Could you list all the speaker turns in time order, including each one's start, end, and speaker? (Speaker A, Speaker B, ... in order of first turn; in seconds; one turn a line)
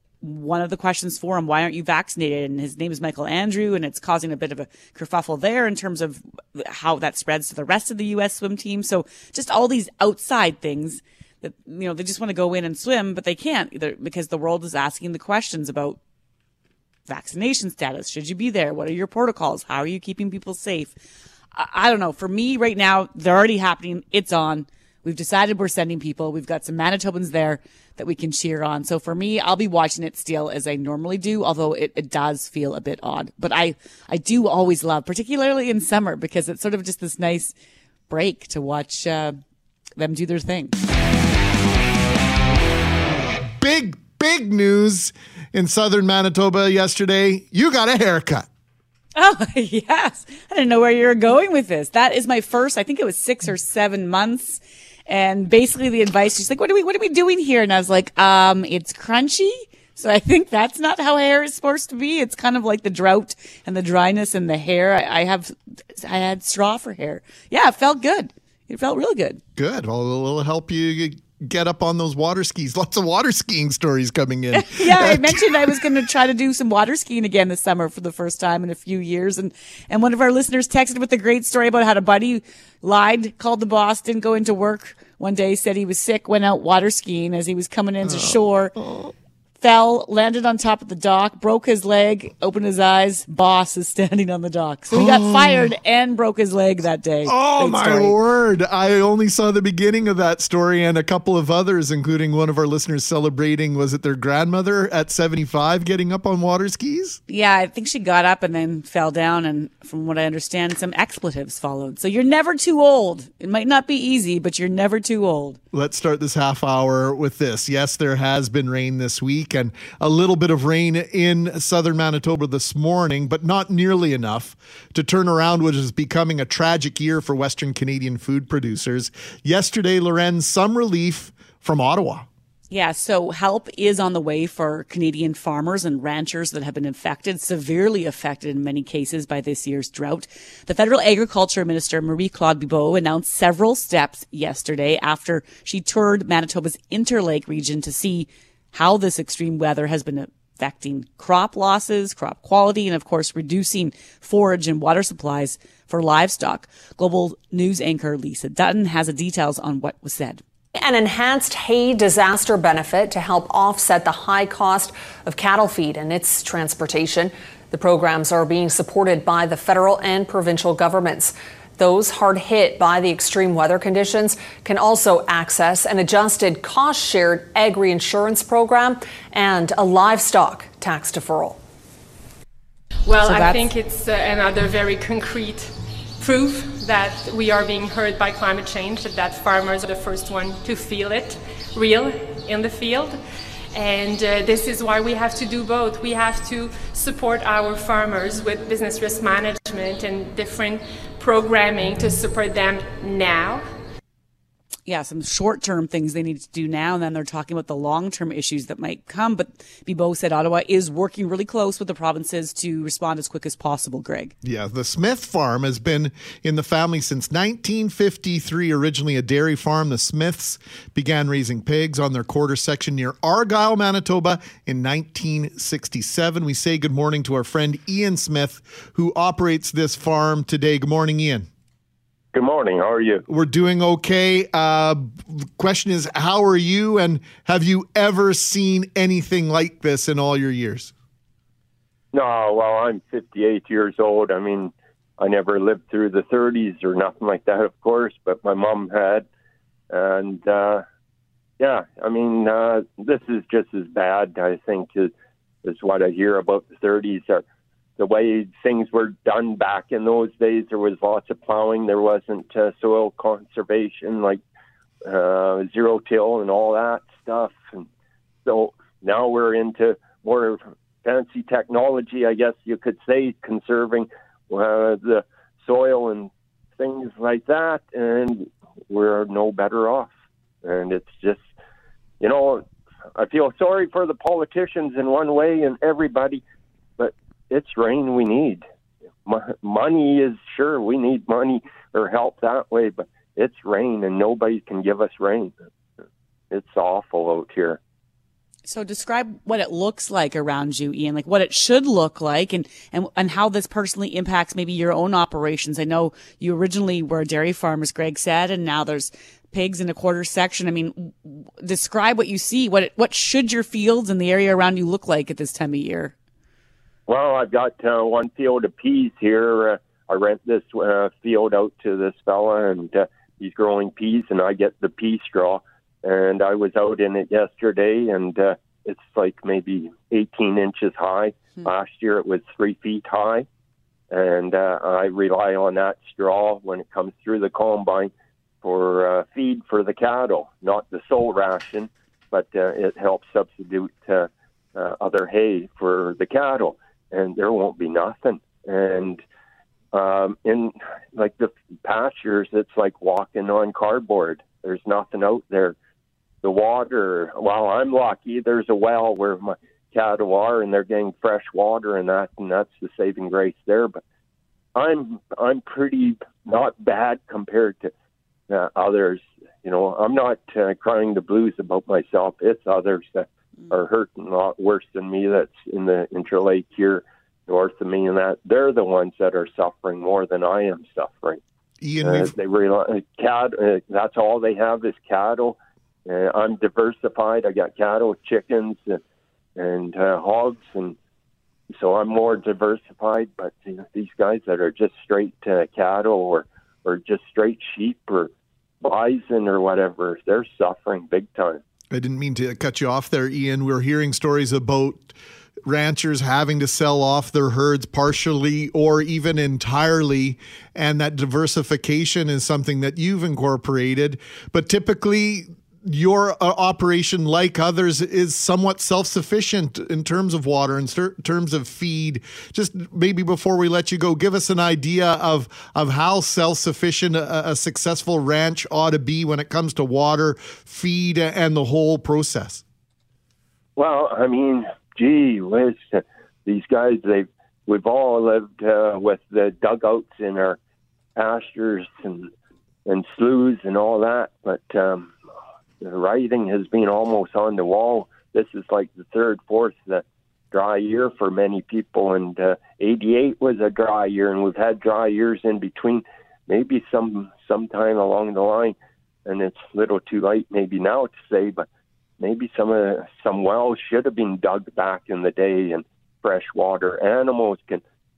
Speaker A: 0.2-16.0
Speaker A: 17.1-20.9
Speaker A: 21.5-37.5
Speaker A: 38.1-39.4
Speaker A: 40.0-40.8
Speaker B: 43.3-48.5
Speaker A: 49.1-69.4
Speaker B: 69.5-75.8
Speaker A: 74.5-88.7
Speaker B: 88.0-89.1
Speaker A: 89.6-98.1
Speaker B: 94.9-95.7
Speaker B: 97.2-107.2
Speaker A: 107.3-115.6
Speaker B: 115.7-132.3
Speaker A: 132.7-160.4
Speaker C: 160.8-181.6
Speaker D: 183.1-193.2
Speaker A: 183.2-183.7
Speaker D: 193.7-203.7
Speaker A: 204.9-214.3
Speaker B: 214.4-231.5
Speaker E: 232.3-233.2
Speaker B: 233.3-240.9
Speaker E: 242.1-249.2
Speaker E: 249.9-250.8
Speaker E: 251.6-255.1
Speaker E: 255.6-257.4
Speaker E: 258.0-264.4
Speaker E: 265.0-267.9
Speaker E: 268.4-280.1
Speaker E: 280.6-281.4
Speaker E: 282.2-286.4
Speaker E: 287.0-288.6
Speaker E: 289.2-295.5
Speaker E: 296.5-297.8
Speaker A: 298.7-316.1
Speaker E: 317.1-333.5
Speaker E: 334.1-338.1
Speaker E: 338.6-349.2
Speaker E: 349.9-355.7
Speaker E: 356.4-364.0
Speaker E: 364.7-367.9
Speaker E: 368.5-381.4
Speaker B: 381.8-382.3
Speaker E: 382.0-389.0
Speaker E: 389.6-390.9
Speaker E: 391.7-401.6
Speaker B: 401.9-405.1
Speaker B: 405.6-432.6
Speaker E: 433.8-440.6
Speaker E: 441.1-442.3
Speaker E: 442.9-445.1
Speaker E: 445.8-461.6
Speaker E: 462.2-467.8